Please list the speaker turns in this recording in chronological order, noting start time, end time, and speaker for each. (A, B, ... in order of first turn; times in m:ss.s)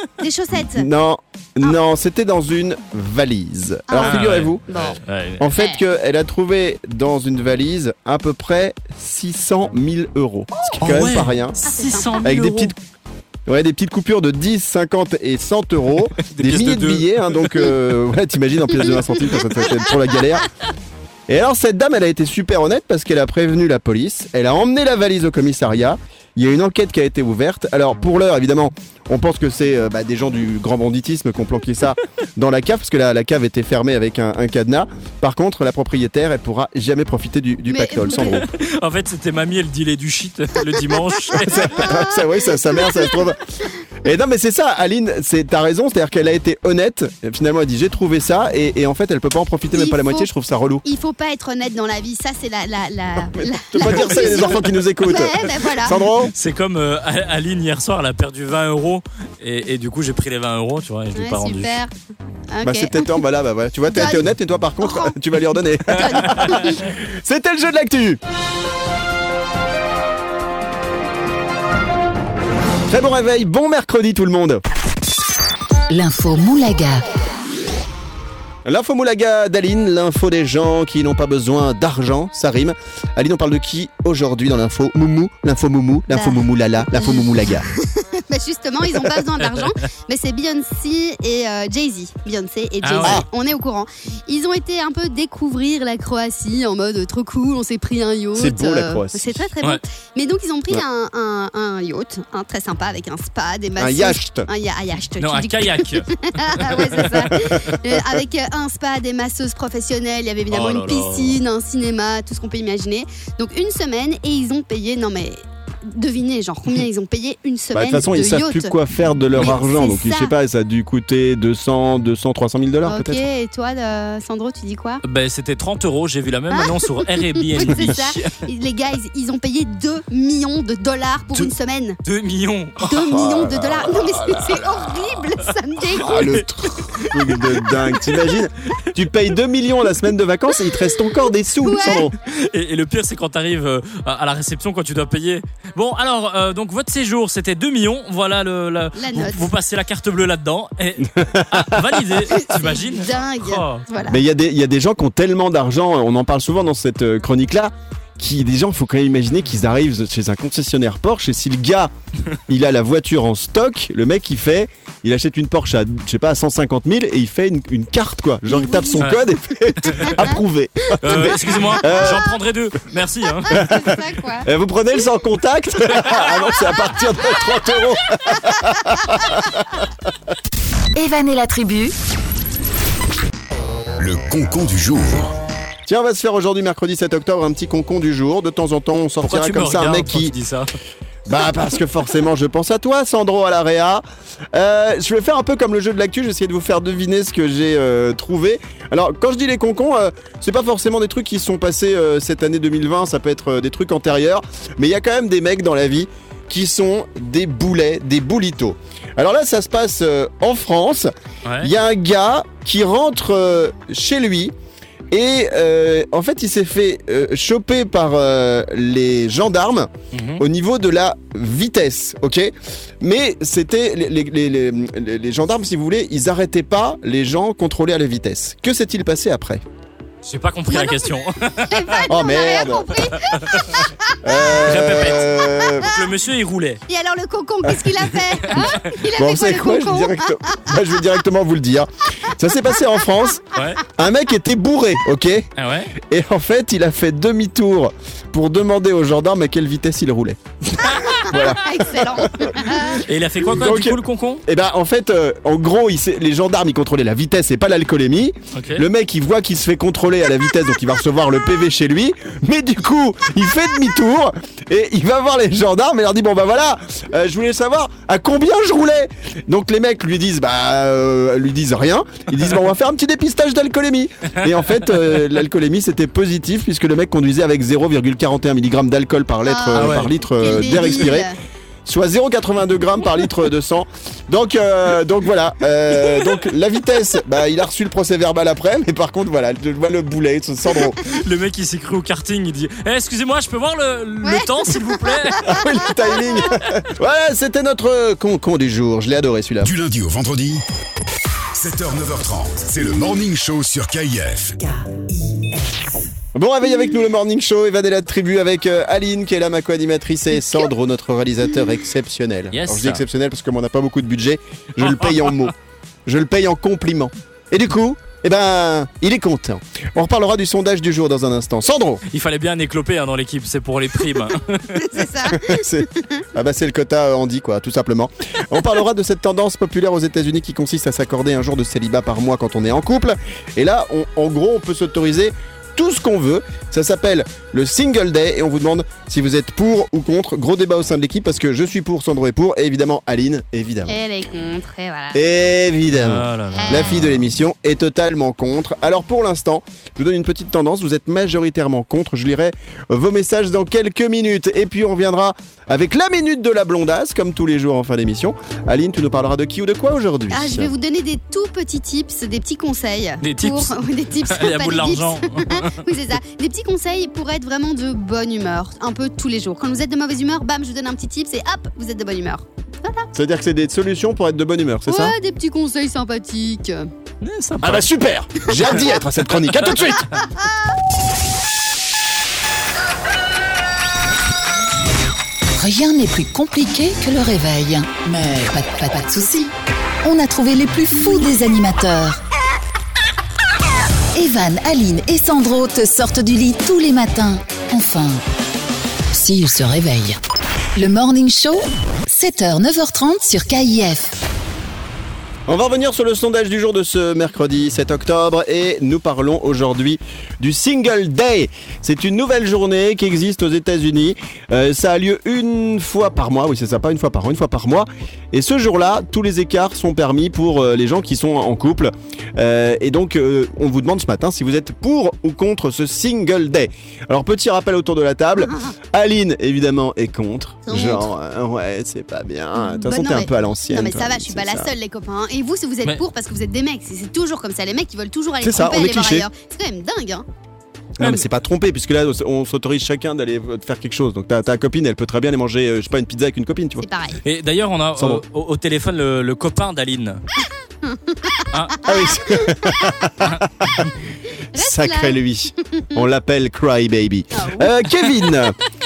0:00.2-0:00.9 A
0:00.6-0:04.8 B
0:03.9-0:05.0 A
0:04.0-0:05.4 C
0:05.4-0:11.6 B
0:05.5-0:05.8 A
0:10.8-0:12.7 C
0:11.7-0:12.2 A
0:12.2-0:12.8 B
0:13.5-0:20.5 B
0:16.2-0:17.7 C
0:21.3-0:38.5 B
0:37.7-0:38.4 A
0:38.2-0:42.0 C
0:41.4-0:43.4 B
0:41.6-0:42.1 A
0:44.0-0:50.8 B
0:49.7-0:50.3 A
0:50.8-0:56.0 A
0:53.4-0:56.3 B
0:56.3-1:01.7 C
1:01.2-1:01.9 A
1:02.5-1:03.2 A
1:02.6-1:08.2 B
1:03.9-1:04.3 A
1:04.8-1:05.2 A
1:05.9-1:06.8 A
1:06.0-1:06.8 C
1:12.9-1:14.6 B
1:15.9-1:17.1 D
1:18.6-1:27.7 B
1:26.1-1:58.7 A
1:29.4-1:29.7 C
1:32.8-1:33.2 C
1:38.4-1:39.5 B
1:43.8-1:44.5 B
1:45.2-1:47.3 C
1:47.4-1:48.0 B
1:50.5-1:51.4 C
1:57.7-2:03.2 B
1:59.4-2:00.3 A
2:02.8-2:05.0 A
2:05.0-2:08.4 C
2:06.5-2:12.0 A
2:07.7-2:07.9 B
2:12.0-2:12.9 C
2:12.8-2:16.4 A
2:12.8-2:14.9 B
2:16.0-2:22.2 B
2:16.0-2:18.2 C
2:21.6-2:22.1 A
2:22.2-2:33.8 C
2:29.0-2:29.5 A
2:31.2-2:32.0 B
2:32.3-2:34.2 A
2:34.1-2:41.9 B
2:42.5-2:52.3 B
2:48.5-2:49.2 A
2:49.0-2:49.3 C
2:49.8-2:50.2 C
2:50.0-2:50.3 A
2:51.0-2:53.7 C
2:51.6-2:52.1 A
2:53.4-2:54.5 A
2:53.5-2:59.9 B
3:01.0-3:01.9 D
3:04.0-3:05.3 E
3:05.9-3:10.4 B
3:09.2-3:10.7 C
3:11.3-3:14.0 B
3:14.5-3:34.5 B
3:31.5-3:31.7 C
3:35.1-3:49.6 B
3:40.1-3:40.4 C
3:50.2-3:52.1 C
3:50.7-3:51.0 A
3:51.7-3:55.9 A
3:52.1-3:53.1 B
3:53.3-3:53.8 C
3:54.2-3:55.9 B
3:54.5-3:56.8 C
3:56.9-4:00.7 A
3:58.4-3:58.8 C
3:59.0-4:41.3 B
4:03.6-4:03.8 C
4:05.6-4:06.0 C
4:10.9-4:11.2 C
4:11.2-4:13.0 A
4:12.9-4:14.4 C
4:18.5-4:18.8 C
4:39.5-4:41.4 A
4:39.8-4:40.1 C
4:41.8-4:51.0 B
4:51.0-4:55.6 C
4:54.2-4:56.5 A
4:55.4-4:59.7 B
4:59.6-5:00.6 E
5:01.6-5:04.6 E
5:06.4-5:15.5 B
5:12.5-5:13.0 C
5:14.8-5:15.5 C
5:16.1-5:22.0 B
5:22.1-5:25.0 C
5:24.8-5:26.2 A
5:25.3-5:44.0 B
5:43.9-5:45.2 A
5:45.1-6:00.7 B
5:45.9-5:47.2 C
5:46.6-5:47.0 A
6:00.3-6:13.1 A
6:03.2-6:05.8 C
6:13.1-6:15.2 B
6:14.9-6:16.9 A
6:17.2-6:17.8 C
6:17.6-6:20.2 B
6:25.6-6:32.2 D
6:34.1-6:38.2 D
6:39.1-6:40.2 D
6:40.8-6:44.2 D
6:45.5-7:14.7 B
7:10.7-7:11.1 A
7:12.6-7:20.3 A
7:18.4-7:19.3 B
7:21.0-7:26.8 B
7:26.8-7:27.2 A
7:27.2-7:30.2 C
7:28.0-7:28.2 B
7:30.8-7:33.1 A
7:31.5-7:31.9 C
7:31.8-7:33.8 B
7:33.3-7:33.9 C
7:34.5-7:35.2 A
7:34.6-7:38.6 B
7:37.3-7:37.7 A